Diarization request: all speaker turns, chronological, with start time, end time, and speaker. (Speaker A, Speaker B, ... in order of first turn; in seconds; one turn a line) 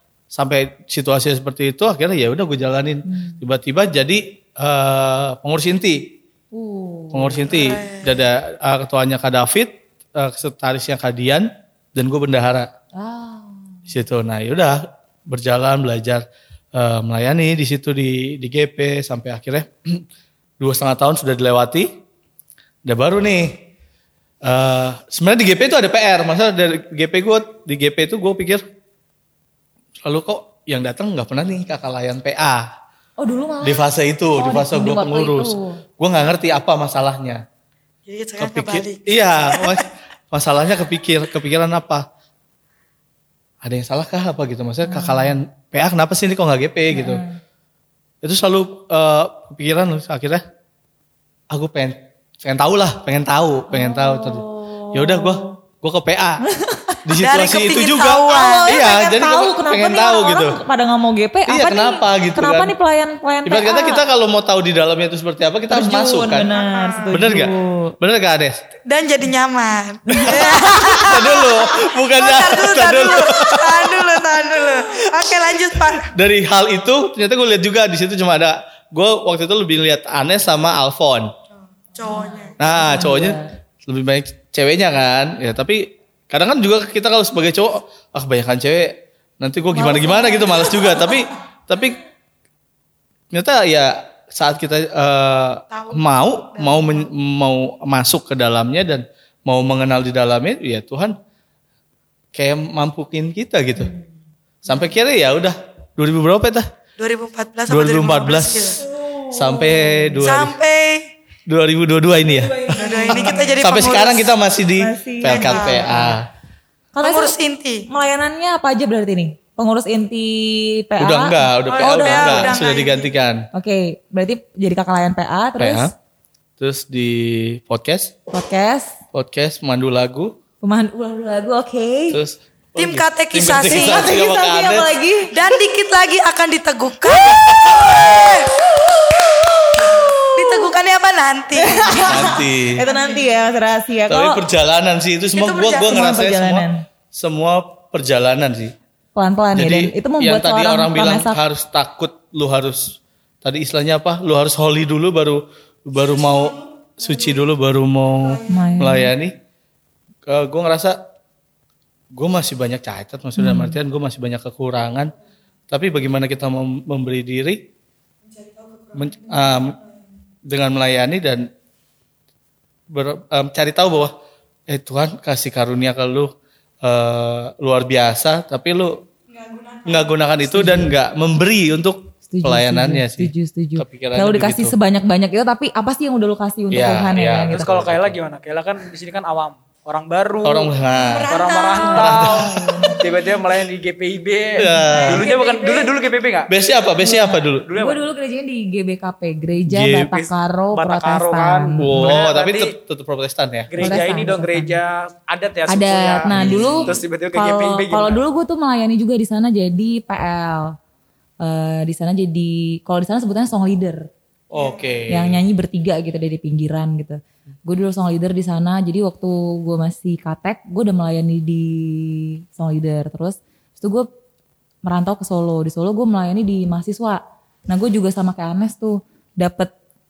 Speaker A: 0.3-6.0
Speaker B: 3.1-3.4
Speaker B: 6.5-7.6
Speaker A: 7.1-12.7
Speaker C: 7.5-8.3
Speaker B: 13.0-13.8
Speaker A: 13.9-20.0
Speaker A: 20.6-21.9
Speaker A: 22.9-23.6
Speaker A: 24.4-28.6
Speaker A: 30.0-32.7
Speaker B: 33.2-35.8
Speaker A: 33.6-37.4
Speaker C: 38.1-39.8
Speaker A: 38.4-42.0
Speaker A: 43.6-47.2
Speaker B: 44.8-45.4
Speaker B: 46.9-47.4
Speaker A: 48.2-50.4
Speaker A: 51.5-56.4
Speaker B: 53.7-55.5
Speaker B: 56.5-57.0
Speaker A: 57.0-60.6
Speaker C: 57.2-58.7
Speaker B: 58.3-64.0
Speaker A: 61.5-62.7
Speaker A: 63.5-66.6
Speaker B: 65.7-68.0
Speaker C: 66.5-67.4
Speaker A: 67.1-68.6
Speaker C: 68.9-76.1
Speaker B: 70.1-71.4
Speaker A: 70.2-81.3
Speaker C: 81.9-82.6
Speaker B: 82.1-83.5
Speaker A: 82.6-92.0
Speaker B: 89.7-91.2
Speaker A: 93.3-101.2
Speaker C: 95.7-97.1
Speaker A: 102.3-103.9
Speaker A: 104.7-106.7
Speaker C: 107.0-108.8
Speaker A: 107.7-108.8
Speaker B: 108.9-110.2
Speaker A: 109.3-110.5
Speaker C: 110.2-111.1
Speaker A: 111.5-116.2
Speaker B: 112.4-113.6
Speaker C: 112.7-114.3
Speaker B: 114.8-116.2
Speaker C: 115.2-116.0
Speaker B: 116.9-117.4
Speaker C: 117.0-117.9
Speaker B: 117.9-122.6
Speaker A: 121.0-123.4
Speaker C: 121.7-123.1
Speaker B: 123.5-125.9
Speaker A: 125.6-125.9
Speaker A: 126.6-128.1
Speaker B: 128.3-128.9
Speaker A: 129.1-130.3
Speaker B: 130.6-132.2
Speaker A: 132.1-135.0
Speaker C: 132.8-134.1
Speaker B: 133.6-135.3
Speaker C: 135.3-138.6
Speaker B: 137.1-140.7
Speaker C: 139.8-142.3
Speaker B: 141.6-144.4
Speaker A: 142.1-142.9
Speaker A: 144.1-148.7
Speaker C: 145.3-146.1
Speaker B: 145.8-146.8
Speaker B: 149.2-151.4
Speaker A: 149.6-159.3
Speaker C: 156.2-157.3
Speaker C: 158.2-158.7
Speaker B: 158.5-159.1
Speaker A: 160.3-161.0
Speaker A: 162.2-165.1
Speaker B: 163.4-163.8
Speaker A: 165.7-167.6
Speaker C: 168.3-169.8
Speaker A: 168.9-169.8
Speaker A: 170.5-171.5
Speaker A: 172.9-174.1
Speaker A: 174.7-176.3
Speaker A: 176.8-179.0
Speaker C: 179.3-180.1
Speaker A: 179.9-184.8
Speaker B: 180.5-180.9
Speaker B: 182.3-187.7
Speaker A: 186.7-188.2
Speaker D: 187.5-190.7
Speaker A: 190.4-191.3
Speaker C: 191.0-192.3
Speaker D: 191.3-196.5
Speaker B: 191.7-193.1
Speaker A: 192.0-192.5
Speaker C: 192.8-193.1
Speaker B: 194.6-195.3
Speaker A: 194.6-195.3
Speaker C: 195.2-195.9
Speaker A: 196.5-197.7
Speaker B: 197.0-202.2
Speaker D: 197.6-198.0
Speaker A: 199.7-200.2
Speaker D: 200.7-202.7
Speaker A: 201.8-204.0
Speaker D: 203.7-208.2
Speaker B: 203.8-204.8
Speaker B: 205.7-210.7
Speaker A: 206.3-207.0
Speaker B: 211.4-214.1
Speaker A: 214.5-215.4
Speaker B: 215.1-224.1
Speaker B: 224.9-229.7